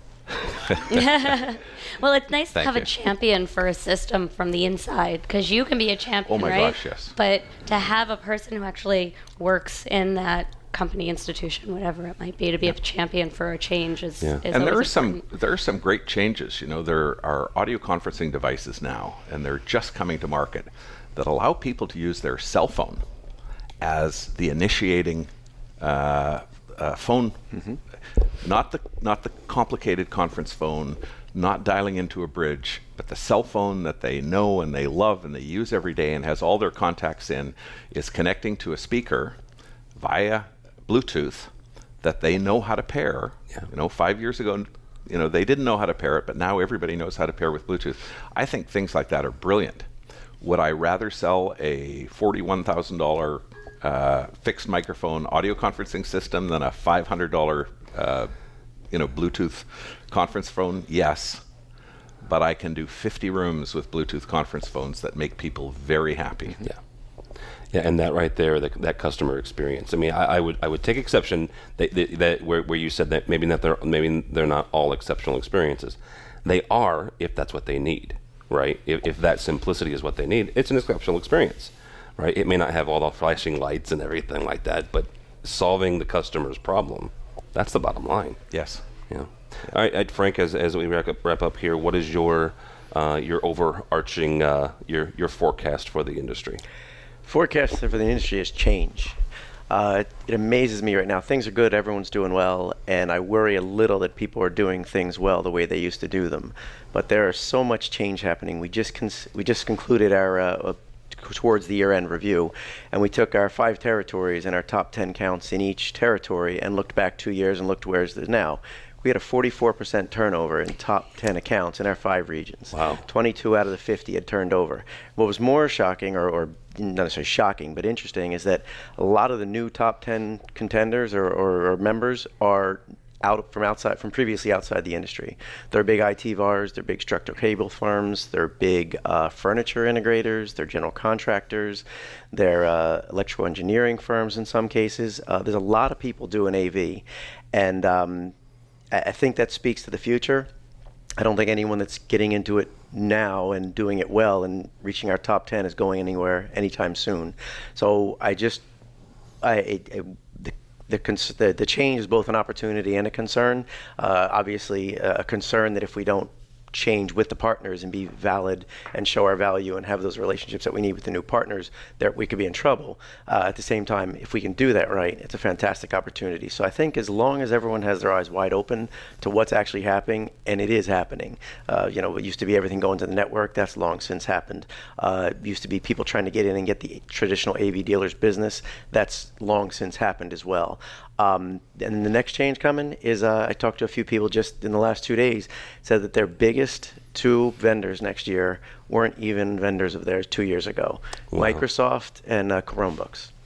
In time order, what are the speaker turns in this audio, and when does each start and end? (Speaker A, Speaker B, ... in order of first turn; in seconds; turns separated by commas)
Speaker A: 0.4-1.0, Speaker B: 0.9-15.2, Speaker A: 2.5-2.9, Speaker A: 6.3-7.2, Speaker A: 14.5-23.0, Speaker A: 23.8-27.6, Speaker A: 28.4-39.4, Speaker A: 40.0-41.5, Speaker A: 42.0-49.9, Speaker A: 50.4-58.3, Speaker A: 58.9-61.5, Speaker A: 62.2-66.6, Speaker C: 67.7-88.4, Speaker A: 88.5-88.8, Speaker C: 89.1-96.6, Speaker D: 97.3-99.2, Speaker D: 99.7-148.3, Speaker C: 122.7-123.0, Speaker D: 148.9-150.5, Speaker D: 151.2-158.6, Speaker D: 159.4-203.3, Speaker C: 201.3-201.6